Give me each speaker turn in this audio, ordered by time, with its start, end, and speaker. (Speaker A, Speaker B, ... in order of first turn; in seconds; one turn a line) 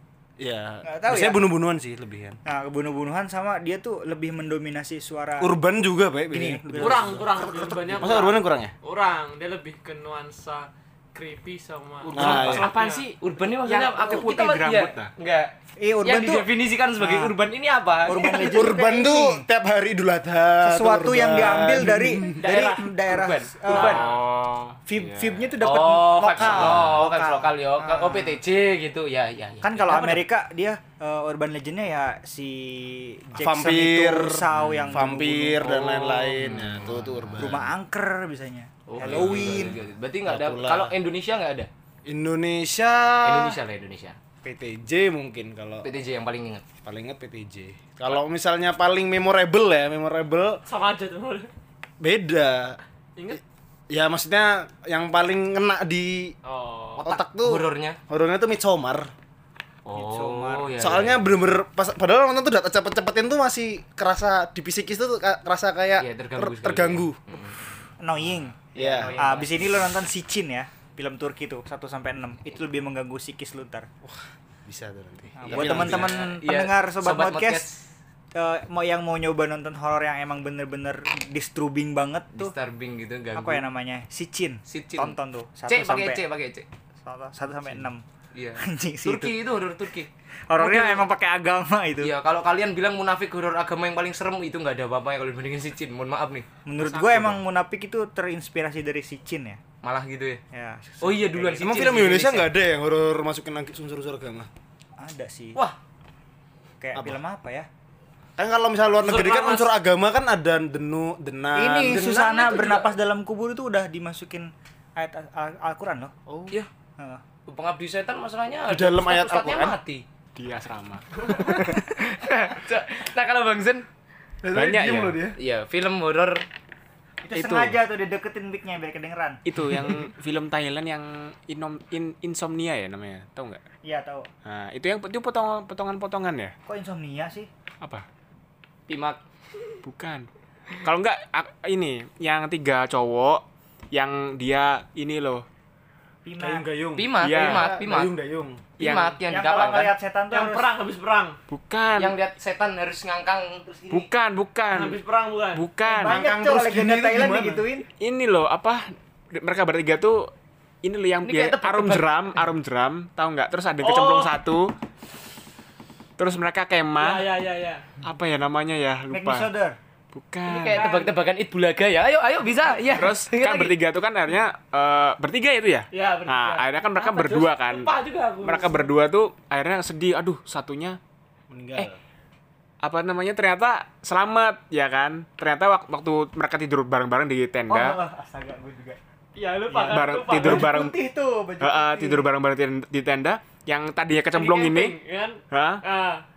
Speaker A: 0.4-2.4
Speaker B: 0.8-1.5
Speaker B: 2.5-5.5
Speaker A: 5.4-7.2
Speaker B: 6.3-7.9
Speaker C: 6.8-13.0
Speaker A: 7.9-8.7
Speaker D: 12.1-15.1
Speaker E: 12.1-18.4
Speaker A: 12.2-12.7
Speaker B: 15.8-17.4
Speaker B: 18.1-19.4
Speaker A: 18.3-22.5
Speaker B: 20.6-24.1
Speaker E: 22.4-24.1
Speaker D: 23.8-25.5
Speaker B: 24.9-28.4
Speaker E: 25.6-30.2
Speaker D: 26.5-27.0
Speaker B: 29.6-35.7
Speaker A: 33.4-37.7
Speaker E: 35.6-36.8
Speaker D: 36.4-37.0
Speaker B: 37.4-39.8
Speaker E: 38.9-41.7
Speaker A: 39.0-39.6
Speaker A: 40.2-40.9
Speaker A: 42.0-43.6
Speaker E: 43.2-44.2
Speaker A: 44.4-45.9
Speaker E: 45.8-46.6
Speaker A: 46.9-50.6
Speaker C: 50.7-51.5
Speaker A: 52.0-52.8
Speaker A: 53.9-56.3
Speaker C: 56.5-57.2
Speaker A: 57.0-59.1
Speaker E: 57.4-58.0
Speaker E: 59.9-61.3
Speaker B: 59.9-60.8
Speaker A: 60.8-67.2
Speaker E: 66.0-67.6
Speaker B: 68.0-73.9
Speaker E: 68.7-69.6
Speaker A: 68.8-69.2
Speaker A: 74.0-76.2
Speaker B: 75.4-77.7
Speaker E: 75.5-77.8
Speaker B: 78.3-82.5
Speaker E: 82.4-83.6
Speaker B: 83.3-86.2
Speaker E: 84.7-85.2
Speaker E: 85.7-86.7
Speaker B: 87.0-88.0
Speaker E: 88.3-91.0
Speaker B: 88.6-89.3
Speaker B: 90.5-92.1
Speaker E: 92.0-96.5
Speaker B: 96.7-99.6
Speaker E: 99.8-100.4
Speaker B: 100.5-101.5
Speaker E: 101.0-102.5
Speaker A: 101.4-104.5
Speaker B: 105.0-105.6
Speaker B: 106.8-107.7
Speaker A: 108.4-112.9
Speaker C: 109.0-109.7
Speaker B: 111.5-116.1
Speaker A: 116.3-116.5
Speaker E: 117.5-120.0
Speaker A: 118.7-119.8
Speaker D: 120.4-121.8
Speaker E: 121.2-123.9
Speaker A: 124.4-125.3
Speaker D: 124.5-125.2
Speaker E: 125.4-126.5
Speaker B: 127.2-129.4
Speaker D: 127.3-127.8
Speaker D: 129.5-133.6
Speaker B: 133.8-134.3
Speaker D: 134.4-136.5
Speaker B: 136.7-137.5
Speaker E: 138.9-139.2
Speaker D: 139.8-145.5
Speaker B: 146.2-146.7
Speaker A: 146.4-148.7
Speaker E: 147.0-148.1
Speaker D: 147.2-147.7
Speaker D: 148.8-149.2
Speaker E: 148.8-149.9
Speaker B: 149.3-150.7
Speaker C: 150.3-151.4
Speaker D: 151.5-152.2
Speaker E: 152.0-154.0
Speaker D: 153.9-155.0
Speaker C: 154.7-155.7
Speaker D: 155.6-156.2
Speaker B: 155.9-157.9
Speaker A: 156.0-157.7
Speaker D: 158.0-160.3
Speaker D: 160.8-164.7
Speaker E: 161.2-162.1
Speaker C: 163.8-164.3
Speaker D: 166.2-167.3
Speaker C: 167.0-167.9
Speaker D: 168.0-169.5
Speaker B: 169.1-169.8
Speaker D: 170.1-170.8
Speaker E: 170.5-173.7
Speaker C: 170.6-171.1
Speaker D: 172.9-181.0
Speaker C: 175.9-178.9
Speaker A: 181.5-182.0
Speaker D: 182.8-188.0
Speaker B: 187.7-189.0
Speaker C: 189.3-190.7
Speaker B: 189.7-192.3
Speaker D: 189.9-190.9
Speaker D: 191.6-195.0
Speaker C: 194.3-196.2
Speaker D: 195.5-195.8